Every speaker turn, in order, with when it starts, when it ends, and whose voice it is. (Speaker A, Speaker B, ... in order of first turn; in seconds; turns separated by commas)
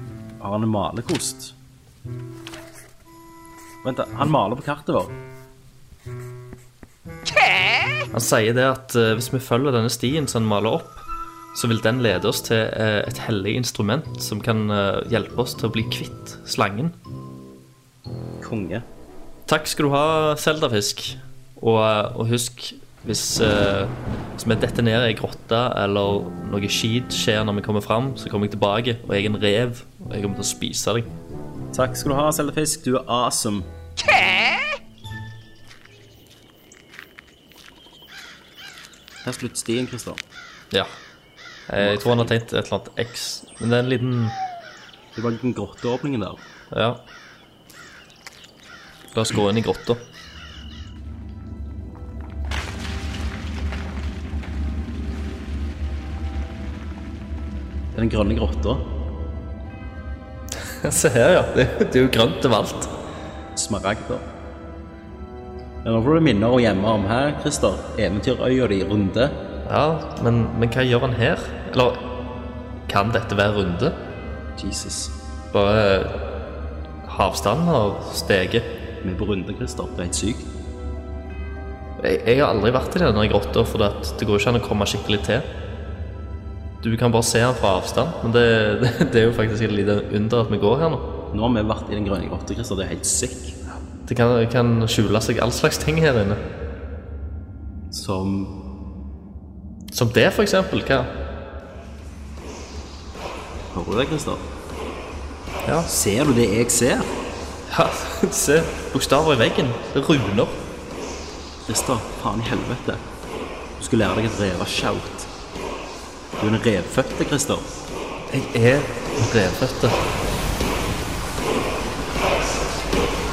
Speaker A: 0.4-1.5, Speaker A: 3.8-5.2, Speaker B: 8.1-16.9, Speaker A: 18.4-18.8, Speaker B: 19.5-31.1, Speaker A: 31.7-33.7, Speaker A: 39.2-40.2, Speaker B: 41.7-44.4, Speaker A: 41.8-42.3, Speaker A: 45.1-46.4, Speaker B: 46.7-47.0, Speaker B: 49.1-50.0, Speaker A: 57.9-58.9, Speaker B: 60.7-62.9, Speaker A: 63.5-64.2, Speaker A: 65.8-69.4, Speaker B: 69.7-72.1, Speaker B: 72.9-74.0, Speaker A: 74.6-75.1, Speaker B: 75.5-76.2, Speaker B: 77.0-78.7, Speaker A: 79.0-80.5, Speaker B: 82.0-85.5, Speaker B: 86.8-91.1, Speaker A: 91.3-93.5, Speaker B: 94.0-96.4, Speaker A: 97.9-98.6, Speaker B: 99.9-101.1, Speaker A: 103.7-104.5, Speaker A: 105.9-107.1, Speaker B: 107.7-110.6, Speaker A: 111.7-113.0, Speaker A: 113.8-115.3, Speaker A: 116.4-117.7, Speaker B: 118.3-120.0